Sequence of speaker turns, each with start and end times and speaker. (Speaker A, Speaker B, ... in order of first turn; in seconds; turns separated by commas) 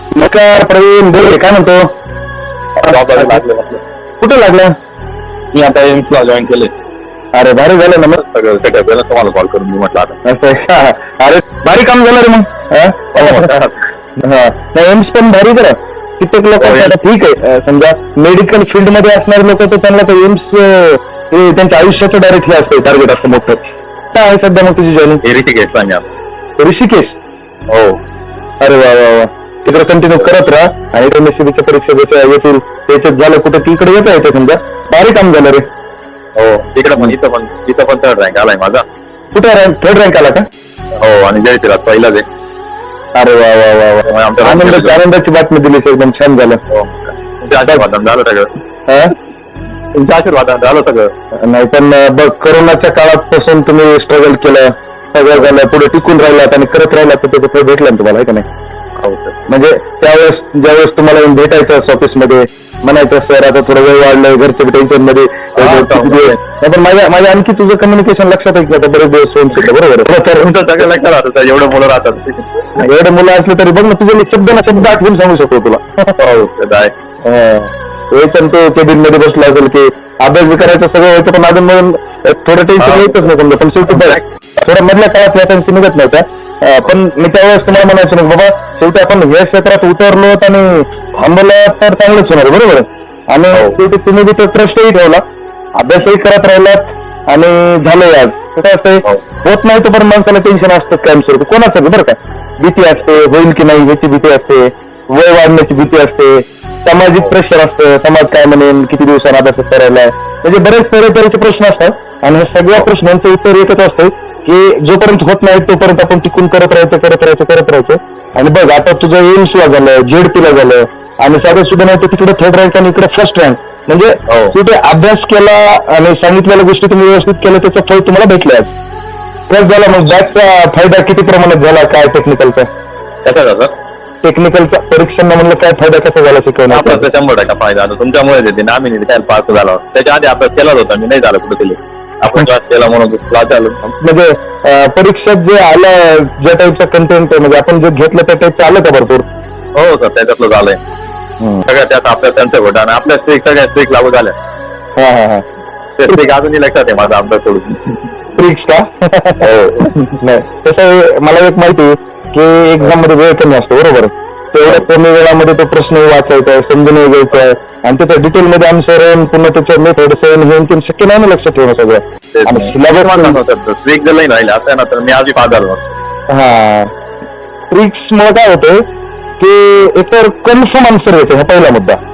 Speaker A: 0.1-1.9, Speaker A: 2.8-3.4, Speaker B: 2.8-3.8, Speaker A: 4.2-4.7, Speaker B: 5.5-6.7, Speaker A: 7.3-8.2, Speaker B: 8.2-10.2, Speaker A: 10.2-13.6, Speaker B: 13.2-13.8, Speaker A: 14.2-23.6, Speaker B: 16.6-16.9, Speaker A: 24.1-25.2, Speaker B: 25.2-26.1, Speaker A: 26.6-27.2, Speaker B: 27.7-28.0, Speaker A: 28.6-35.7, Speaker B: 36.4-38.8, Speaker A: 39.3-40.5, Speaker B: 41.0-42.3, Speaker A: 43.1-46.6, Speaker B: 44.1-45.0, Speaker B: 46.7-48.5, Speaker A: 48.9-49.1, Speaker B: 49.9-51.1, Speaker A: 51.4-58.5, Speaker B: 59.0-59.4, Speaker A: 59.5-70.5, Speaker B: 65.6-66.4, Speaker B: 70.3-72.8, Speaker A: 72.8-76.1, Speaker B: 76.2-77.0, Speaker A: 77.2-95.2, Speaker B: 82.8-83.2, Speaker B: 83.9-84.2, Speaker B: 93.5-93.8, Speaker A: 95.8-128.7, Speaker B: 124.3-124.5, Speaker A: 129.5-132.7, Speaker B: 133.2-133.7, Speaker A: 134.2-137.1, Speaker B: 136.7-143.8, Speaker A: 143.8-149.2, Speaker B: 149.8-150.8, Speaker B: 151.7-154.3, Speaker A: 155.0-155.4, Speaker B: 156.0-157.9, Speaker A: 158.4-173.4, Speaker B: 172.3-176.0, Speaker A: 176.3-176.9, Speaker A: 177.7-178.8, Speaker A: 179.4-182.0